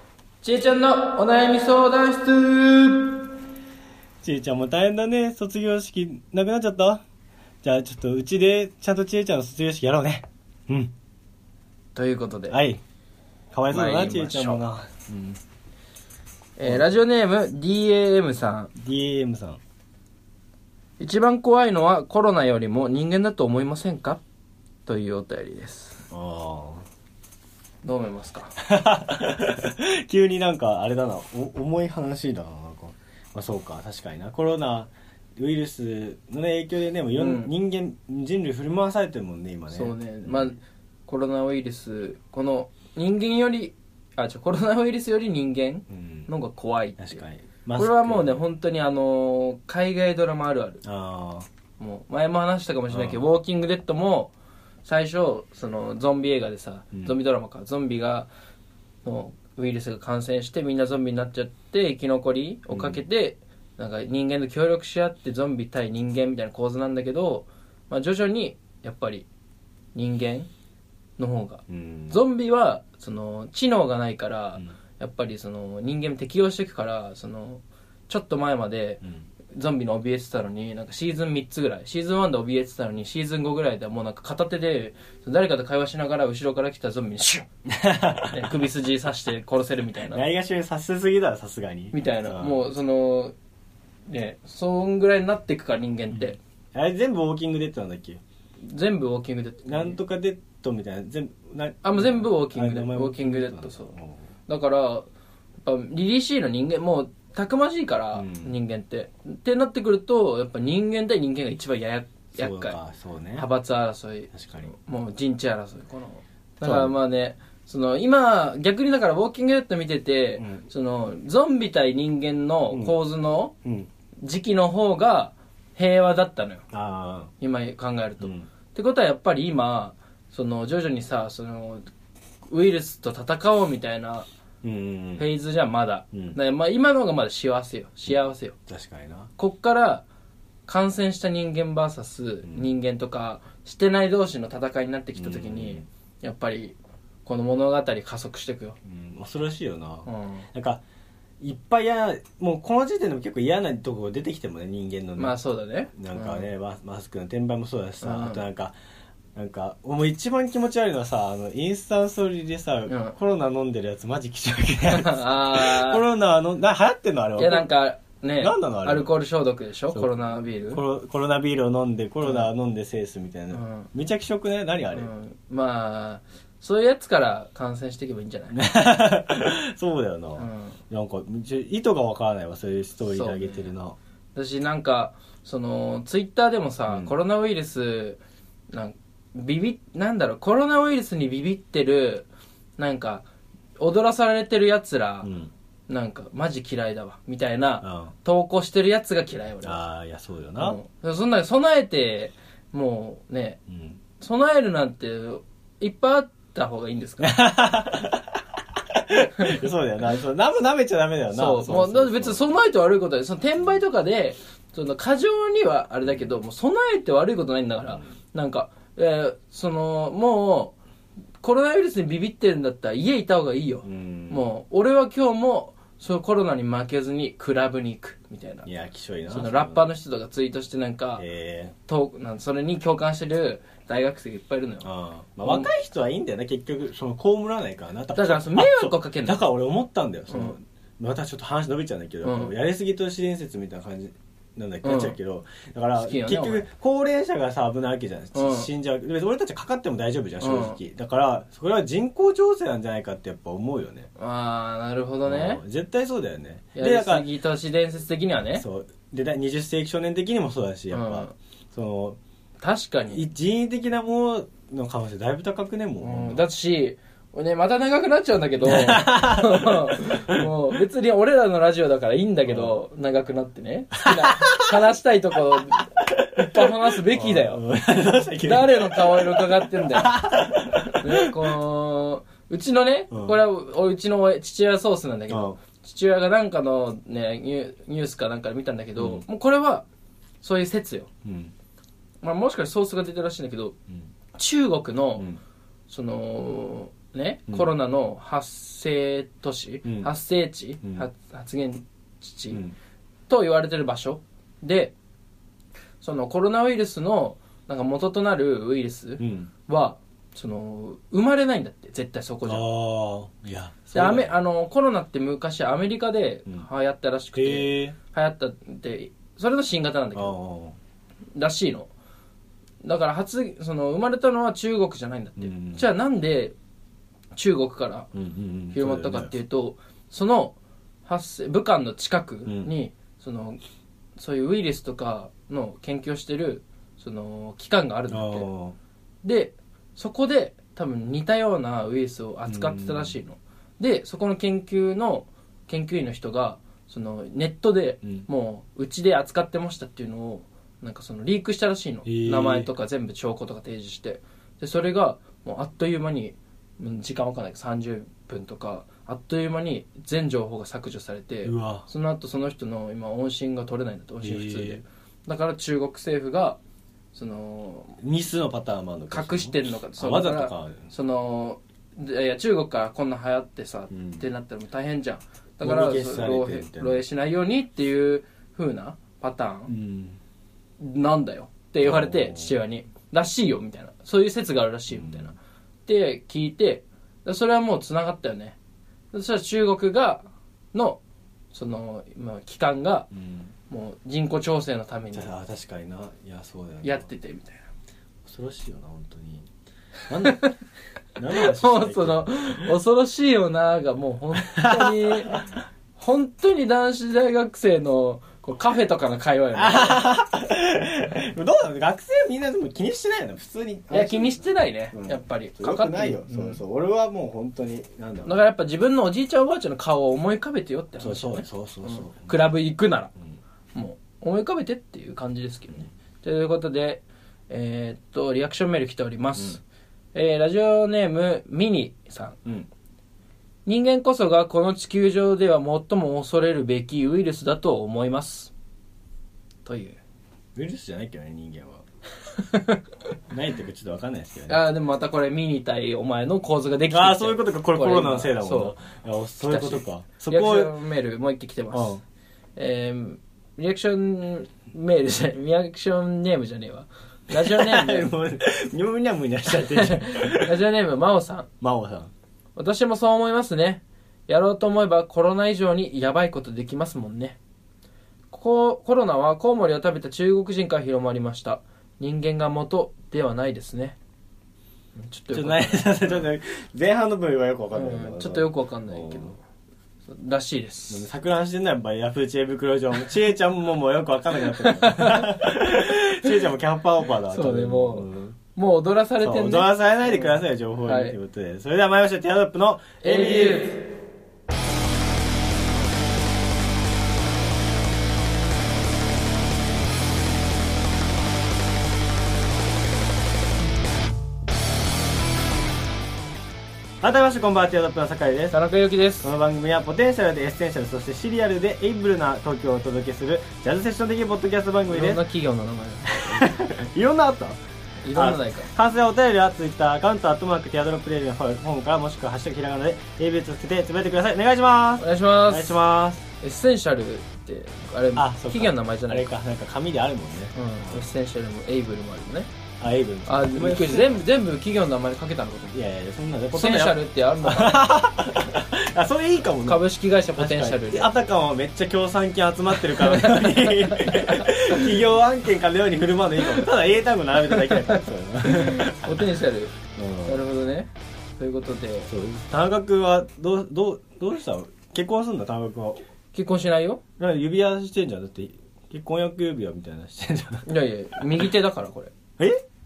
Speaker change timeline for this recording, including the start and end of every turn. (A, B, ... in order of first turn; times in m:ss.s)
0:00.4-0:03.2 A
0:04.2-0:07.0 B
0:07.6-0:10.9 B
0:12.0-0:12.6 A
0:12.5-0:12.8 B
0:13.5-0:15.4 B
0:13.7-0:14.6 A
0:16.6-0:18.7 A
0:16.6-0:17.0 B
0:18.8-0:19.6 B
0:21.0-0:24.2 A
0:24.9-0:26.0 A
0:26.1-0:26.8 B
0:27.8-0:28.6 A
0:28.6-0:40.5 B
0:37.2-0:37.5 A
0:39.7-0:47.2 A
0:45.9-0:46.3 B
0:47.0-0:48.4 B
0:47.8-0:50.8 A
0:50.8-0:51.5 B
0:51.8-0:54.3 A
0:52.9-0:53.2 B
0:54.8-0:58.3 A
0:59.0-1:09.3 A
1:02.7-1:03.0 B
1:10.0-1:10.5 A
1:11.2-1:27.5 A
1:11.7-1:12.2 B
1:27.7-1:28.7 B
1:28.3-1:30.2 A
1:30.1-1:32.6 B
1:31.9-1:33.3 A
1:34.1-1:36.4 A
1:36.7-1:38.2 B
1:38.7-1:40.0 A
1:39.7-1:44.2 B
1:41.8-1:44.0 A
1:44.5-1:45.1 A
1:45.6-1:52.8 A
1:48.1-1:48.6 B
1:52.4-1:53.5 B
1:53.4-2:03.6 A
1:54.3-1:54.7 B
1:56.6-1:56.9 B
2:00.4-2:00.6 B
2:03.6-2:03.9 B
2:04.2-2:06.6 A
2:06.7-2:07.3 B
2:07.4-2:11.9 A
2:08.2-2:08.5 B
2:12.5-2:14.3 A
2:14.6-2:15.3 B
2:15.2-2:18.6 A
2:16.1-2:16.4 B
2:18.7-2:19.3 B
2:19.4-2:20.0 A
2:20.7-2:28.8 A
2:25.2-2:25.8 B
2:28.8-2:30.8 B
2:30.1-2:30.5 A
2:31.4-2:35.4 B
2:35.2-2:36.5 A
2:36.0-2:38.7 B
2:38.0-2:38.4 A
2:39.4-2:47.7 B
2:42.9-2:43.2 A
2:44.9-2:46.0 A
2:47.4-2:50.8 A
2:48.4-2:49.1 B
2:49.9-2:55.1 B
2:53.5-2:53.9 A
2:54.9-2:58.6 A
2:58.5-3:04.0 B
3:00.4-3:00.8 A
3:03.1-3:03.7 A
3:04.4-3:08.2 A
3:06.9-3:07.1 B
3:08.7-3:12.3 A
3:12.8-3:13.3 A
3:13.8-3:15.3 A
3:15.2-3:15.5 B
3:15.9-3:19.8 A
3:17.8-3:18.1 B
3:19.6-3:20.8 B
3:20.6-3:23.6 A
3:23.7-3:24.0 B
3:24.2-3:27.4 A
3:27.2-3:32.4 B
3:31.3-3:40.8 A
3:41.4-3:48.7 A
3:43.8-3:44.4 B
3:48.7-3:49.9 B
3:49.3-3:51.2 A
3:51.2-3:51.7 B
3:51.9-3:54.9 A
3:54.8-4:14.1 B
3:55.4-3:55.7 A
3:58.2-3:59.4 A
4:00.3-4:00.6 A
4:02.2-4:02.5 A
4:04.8-4:05.2 A
4:06.0-4:06.7 A
4:08.3-4:08.7 A
4:10.4-4:10.8 A
4:14.2-4:15.6 A
4:15.2-4:17.3 B
4:16.8-4:18.6 A
4:18.6-4:22.2 B
4:20.9-4:21.3 A
4:22.6-4:23.2 A
4:23.1-4:26.4 B
4:26.0-4:37.6 A
4:28.6-4:30.5 B
4:32.5-4:32.8 B
4:34.0-4:34.8 B
4:36.0-4:41.6 B
4:38.4-4:40.2 A
4:40.9-4:49.9 A
4:43.1-4:43.4 B
4:45.3-4:45.6 B
4:49.0-4:49.2 B
4:50.4-4:51.1 A
4:51.2-4:51.5 B
4:52.2-4:53.8 A
4:54.4-4:55.3 A
4:55.9-5:02.6 A
4:59.8-5:00.1 B
5:03.3-5:05.0 A
5:06.0-5:12.7 A
5:09.2-5:09.5 B
5:12.4-5:14.4 B
5:13.9-5:20.4 A
5:17.4-5:18.0 B
5:20.2-5:20.8 B
5:21.4-5:21.9 A
5:22.8-5:26.6 A
5:25.4-5:25.8 B
5:27.3-5:28.1 A
5:28.1-5:29.3 B
5:28.7-5:33.6 A
5:32.5-5:32.7 B
5:34.2-5:38.5 A
5:38.1-5:38.8 B
5:39.2-6:06.6 A
5:42.5-5:43.2 B
5:52.0-5:52.7 B
6:01.4-6:01.9 B
6:04.2-6:04.8 B
6:07.1-6:08.0 A
6:08.0-6:10.9 B
6:09.1-6:19.7 A
6:13.9-6:14.2 B
6:15.6-6:17.0 B
6:19.7-6:20.2 B
6:20.8-6:28.6 A
6:21.8-6:22.5 B
6:24.9-6:25.3 B
6:29.1-6:31.0 A
6:31.5-6:33.1 A
6:33.1-6:33.5 B
6:33.7-6:35.3 A
6:35.1-6:37.1 B
6:36.8-6:37.6 A
6:38.2-6:39.5 B
6:40.1-6:40.5 B
6:40.2-6:40.6 A
6:41.2-6:42.7 B
6:41.3-6:45.4 A
6:44.4-6:45.4 B
6:46.0-6:50.1 A
6:49.6-6:58.4 B
6:53.9-6:56.6 A
6:58.2-7:03.1 A
7:01.0-7:02.4 B
7:03.7-7:09.6 A
7:10.1-7:12.4 A
7:13.7-7:18.5 A
7:19.6-7:20.0 A
7:20.6-7:21.8 B
7:22.4-7:22.8 A
7:23.3-7:24.6 B
7:24.5-7:28.8 A
7:26.9-7:30.7 B
7:29.4-7:32.0 A
7:31.7-7:32.0 B
7:32.6-7:38.1 A
7:37.3-7:40.6 B
7:39.5-7:41.5 A
7:41.6-7:42.1 B
7:42.6-7:47.4 A
7:48.3-7:54.0 A
7:55.0-7:56.2 A
7:55.3-7:59.3 B
7:57.7-7:59.4 A
8:00.1-8:01.1 A
8:00.9-8:08.4 B
8:04.5-8:05.6 A
8:07.3-8:11.2 A
8:09.2-8:13.7 B
8:13.0-8:13.8 A
8:27.0-8:28.6 B
8:28.5-8:29.3 A
8:29.2-8:35.2 B
8:34.9-8:36.5 A
8:36.2-8:37.6 B
8:38.0-8:38.7 A
8:38.1-8:46.2 B
8:45.0-8:45.8 A
8:46.4-8:49.3 A
8:48.2-8:51.1 B
8:50.5-8:52.5 A
8:52.8-8:54.2 B
8:53.3-8:55.8 A
8:55.7-8:59.8 B
8:56.5-8:57.9 A
8:59.6-9:01.1 A
9:00.4-9:09.3 B
9:03.0-9:04.8 A
9:07.5-9:12.1 A
9:10.0-9:10.4 B
9:12.1-9:16.0 B
9:16.3-9:17.0 A
9:17.2-9:20.7 B
9:20.7-9:22.1 A